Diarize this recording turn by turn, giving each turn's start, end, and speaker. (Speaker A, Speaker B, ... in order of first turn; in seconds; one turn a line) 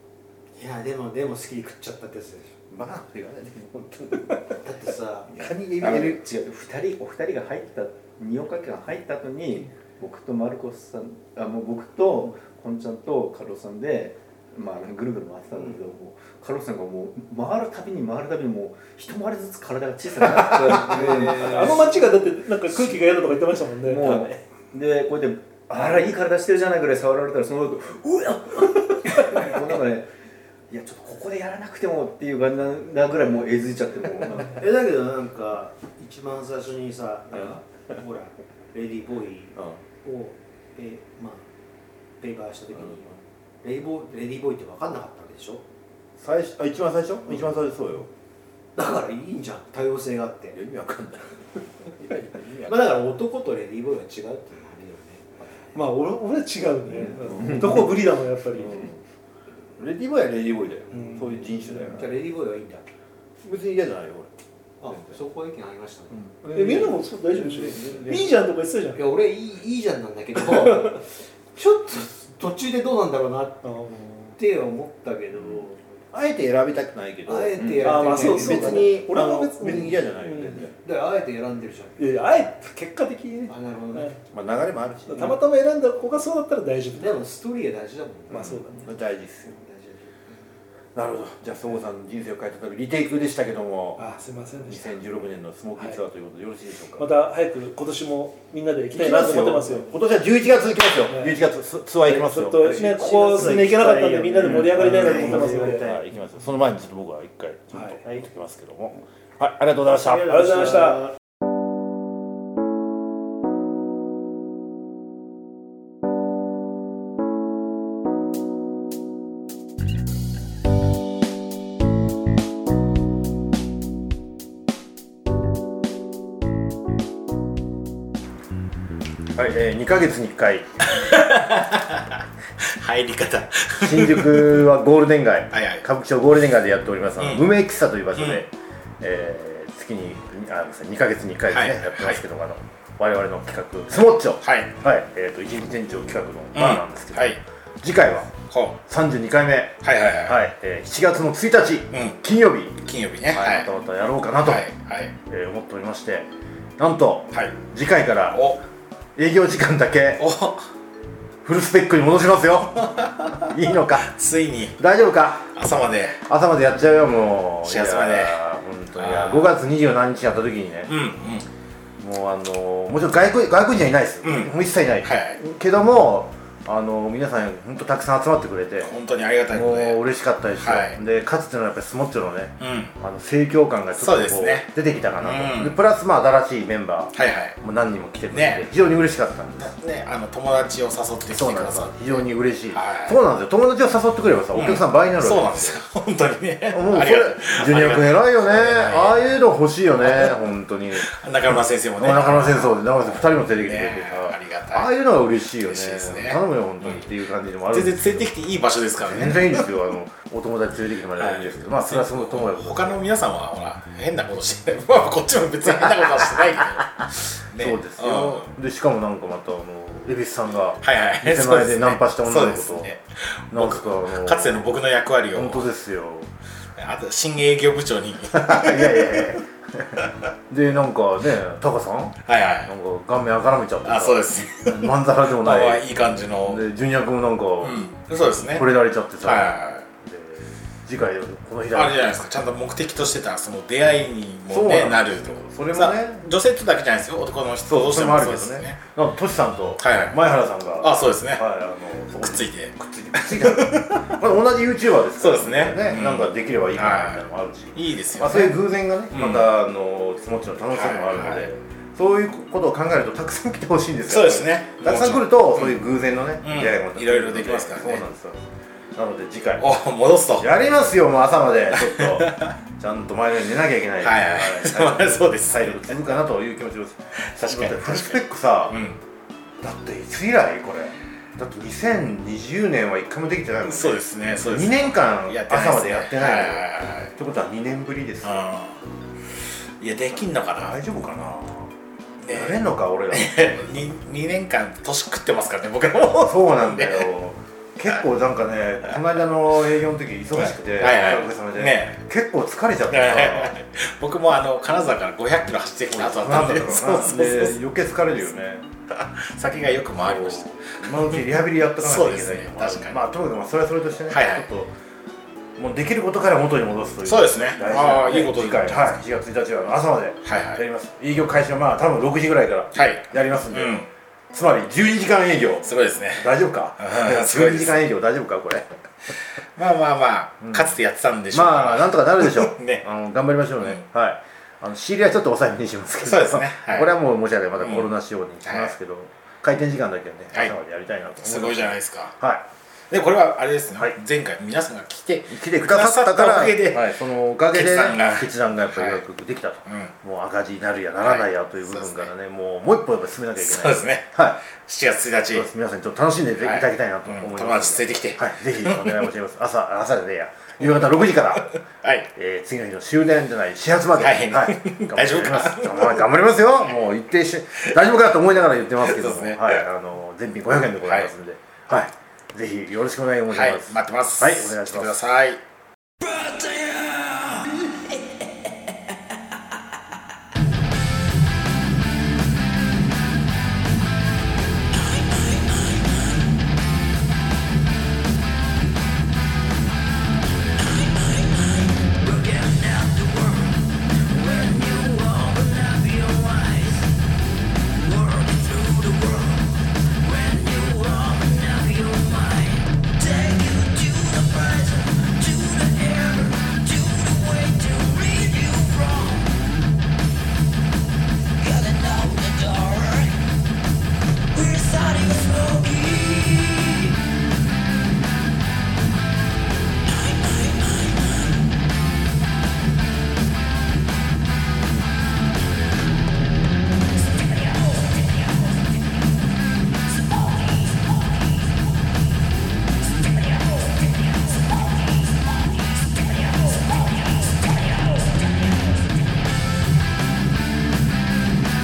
Speaker A: 0.6-2.6
Speaker B: 2.7-4.6
Speaker A: 4.6-5.3
Speaker B: 5.3-6.2
Speaker C: 5.8-22.0
Speaker A: 15.5-15.9
Speaker B: 20.5-20.8
Speaker A: 20.8-21.8
Speaker D: 20.9-24.4
Speaker C: 23.9-30.1
Speaker C: 30.7-34.6
Speaker A: 34.5-41.5
Speaker A: 42.2-45.6
Speaker B: 46.2-48.1
Speaker A: 48.8-50.6
Speaker B: 50.5-51.5
Speaker B: 52.0-52.9
Speaker A: 52.6-55.3
Speaker D: 55.7-58.9
Speaker B: 57.0-58.0
Speaker B: 58.6-59.0
Speaker B: 59.8-62.2
Speaker D: 60.9-61.2
Speaker A: 61.0-62.9
Speaker B: 63.4-64.3
Speaker A: 64.8-66.3
Speaker B: 66.3-68.3
Speaker D: 66.5-69.0
Speaker A: 67.8-68.2
Speaker A: 69.0-73.7
Speaker D: 73.6-74.4
Speaker A: 74.4-75.8
Speaker B: 76.1-80.8
Speaker A: 77.2-80.0
Speaker C: 77.6-77.9
Speaker D: 77.8-80.7
Speaker A: 80.7-82.0
Speaker D: 82.0-84.2
Speaker A: 83.5-84.2
Speaker B: 84.3-85.4
Speaker D: 85.1-87.2
Speaker A: 86.9-88.7
Speaker D: 88.3-88.9
Speaker B: 88.3-89.6
Speaker A: 89.5-90.5
Speaker B: 91.0-94.1
Speaker D: 94.0-94.9
Speaker B: 94.6-97.1
Speaker D: 97.0-99.9
Speaker B: 98.9-103.8
Speaker D: 101.1-101.4
Speaker D: 102.1-105.8
Speaker A: 102.2-106.2
Speaker B: 104.4-110.8
Speaker D: 107.7-108.0
Speaker D: 110.2-111.1
Speaker A: 110.4-111.1
Speaker B: 129.3-130.7
Speaker E: 130.9-134.7
Speaker B: 133.8-154.7
Speaker E: 135.5-135.8
Speaker E: 137.2-137.5
Speaker E: 138.2-138.4
Speaker E: 141.5-142.2
Speaker E: 144.4-144.7
Speaker E: 146.6-147.4
Speaker E: 148.5-148.8
Speaker E: 149.8-150.4
Speaker E: 151.9-152.2
Speaker E: 152.8-153.7
Speaker E: 154.4-155.2
Speaker B: 155.2-158.5
Speaker E: 157.3-157.6
Speaker E: 158.3-158.6
Speaker B: 159.2-160.3
Speaker E: 160.2-160.7
Speaker B: 161.4-164.1
Speaker E: 162.9-164.8
Speaker B: 164.8-165.5
Speaker E: 165.6-166.2
Speaker B: 166.3-170.9
Speaker E: 167.6-168.4
Speaker E: 169.0-169.5
Speaker E: 170.9-171.5
Speaker B: 172.0-178.9
Speaker E: 174.2-175.4
Speaker E: 178.8-180.0
Speaker B: 179.5-189.8
Speaker E: 180.6-181.0
Speaker E: 182.6-182.9
Speaker E: 184.0-184.7
Speaker E: 185.2-185.8
Speaker E: 187.1-187.6
Speaker E: 188.3-188.7
Speaker E: 189.6-191.9
Speaker B: 191.3-195.8
Speaker E: 192.7-193.2
Speaker E: 194.5-199.2
Speaker B: 196.7-208.3
Speaker E: 200.0-200.4
Speaker E: 201.0-204.9
Speaker E: 205.6-207.0
Speaker E: 207.7-209.7
Speaker B: 209.0-213.1
Speaker E: 211.2-218.5
Speaker B: 215.7-216.4
Speaker B: 217.5-222.9
Speaker E: 220.8-225.7
Speaker B: 223.5-224.8
Speaker B: 225.3-226.3
Speaker E: 226.8-229.3
Speaker B: 228.3-242.2
Speaker E: 232.3-232.7
Speaker E: 233.8-236.7
Speaker E: 237.6-238.7
Speaker E: 239.2-239.9
Speaker E: 241.7-248.8
Speaker B: 244.5-246.3
Speaker B: 247.7-269.7
Speaker E: 249.8-250.2
Speaker E: 250.8-251.4
Speaker E: 252.2-254.2
Speaker E: 255.2-258.6
Speaker E: 259.1-259.5
Speaker E: 260.7-261.5
Speaker E: 264.1-265.8
Speaker E: 266.4-268.0
Speaker E: 269.6-270.5
Speaker B: 270.4-278.8
Speaker E: 271.8-272.6
Speaker E: 274.0-275.9
Speaker E: 277.2-279.0
Speaker B: 279.6-288.5
Speaker E: 283.6-287.1
Speaker E: 288.2-288.8
Speaker E: 289.8-290.8
Speaker B: 290.1-291.7
Speaker E: 292.2-292.6
Speaker B: 292.3-293.9
Speaker E: 293.1-297.1
Speaker B: 296.1-303.6
Speaker E: 300.4-302.0
Speaker E: 302.9-307.6
Speaker B: 305.9-308.7
Speaker E: 308.9-313.1
Speaker B: 309.9-314.7
Speaker E: 314.1-314.4
Speaker B: 315.6-328.7
Speaker E: 317.1-319.0
Speaker E: 320.2-320.6
Speaker E: 322.7-323.9
Speaker E: 325.6-327.8
Speaker E: 329.6-332.9
Speaker B: 330.4-330.7
Speaker B: 331.3-342.5
Speaker E: 336.0-336.9
Speaker E: 337.6-337.9
Speaker E: 338.4-338.7
Speaker E: 341.2-342.1
Speaker E: 342.9-349.0
Speaker B: 345.3-354.4
Speaker E: 349.7-349.9
Speaker E: 351.0-352.1
Speaker E: 353.4-355.5
Speaker B: 355.3-361.6
Speaker E: 356.4-359.1
Speaker E: 361.5-362.1
Speaker B: 362.1-375.0
Speaker E: 364.0-366.0
Speaker E: 368.8-369.6
Speaker E: 370.9-371.1
Speaker E: 373.3-375.4
Speaker F: 376.0-378.1
Speaker F: 384.7-386.3
Speaker F: 390.6-396.9
Speaker F: 397.7-409.4
Speaker F: 411.4-413.2
Speaker F: 414.3-416.9
Speaker F: 419.9-421.3